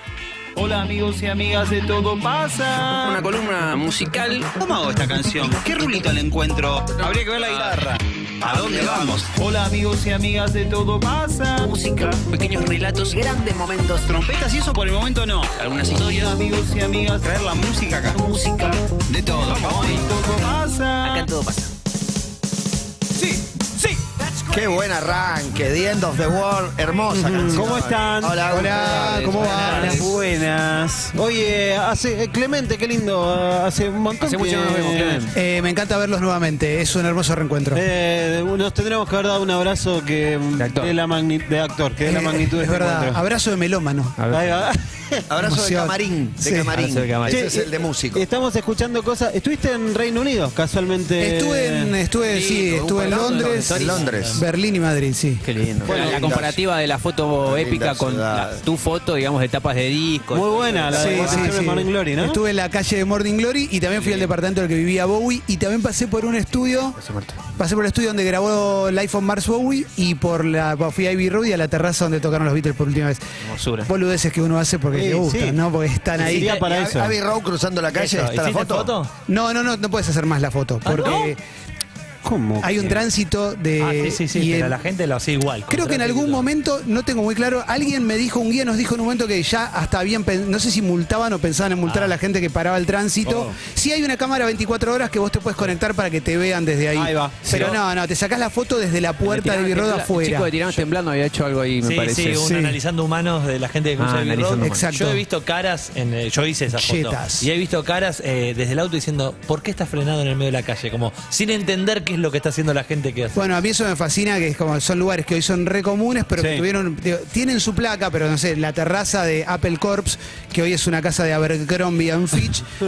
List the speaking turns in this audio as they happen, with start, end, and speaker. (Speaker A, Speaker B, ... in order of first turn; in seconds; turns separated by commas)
Speaker A: 0.6-3.1, Speaker B: 3.0-4.5, Speaker A: 4.6-7.9, Speaker C: 5.2-6.1, Speaker B: 7.0-7.8, Speaker C: 7.1-7.9, Speaker D: 8.4-9.1, Speaker C: 8.4-9.5, Speaker A: 8.4-12.0, Speaker B: 12.2-14.1, Speaker C: 14.3-14.6, Speaker A: 14.3-15.4, Speaker B: 15.6-16.4, Speaker C: 16.0-16.5, Speaker A: 16.5-21.2, Speaker C: 17.3-21.0, Speaker B: 21.0-21.7, Speaker D: 24.5-29.8, Speaker C: 27.1-28.4, Speaker E: 28.5-30.1, Speaker B: 28.8-30.1, Speaker C: 29.8-35.2, Speaker B: 34.2-35.3, Speaker E: 35.3-37.8, Speaker C: 37.7-43.2, Speaker B: 40.6-41.0, Speaker E: 42.0-44.2, Speaker B: 44.2-44.6, Speaker C: 44.3-45.2, Speaker D: 45.3-48.2, Speaker E: 45.4-46.8, Speaker B: 46.6-47.5, Speaker C: 47.3-51.9, Speaker E: 51.2-55.4, Speaker B: 52.3-54.2, Speaker D: 53.0-54.4, Speaker F: 53.3-54.5, Speaker B: 55.4-61.6, Speaker D: 55.8-56.6, Speaker C: 55.9-56.2, Speaker D: 57.4-58.6, Speaker C: 60.3-62.4, Speaker E: 60.9-67.0, Speaker B: 64.0-64.3, Speaker D: 67.0-67.4, Speaker E: 67.6-73.2, Speaker B: 73.4-73.9, Speaker E: 73.9-76.5, Speaker C: 74.9-75.6, Speaker F: 76.2-76.7, Speaker D: 76.3-78.9, Speaker C: 76.4-77.1, Speaker F: 77.9-79.1, Speaker E: 79.3-81.4, Speaker F: 80.8-81.3, Speaker C: 82.2-82.7, Speaker E: 82.6-84.8, Speaker F: 83.8-86.5, Speaker E: 85.7-100.8, Speaker F: 91.8-92.2, Speaker C: 97.0-97.6, Speaker F: 97.5-97.8, Speaker B: 99.2-102.4, Speaker F: 101.8-113.6, Speaker E: 102.4-102.8, Speaker B: 104.0-104.8, Speaker E: 104.6-105.2, Speaker E: 106.8-107.5, Speaker E: 113.3-122.7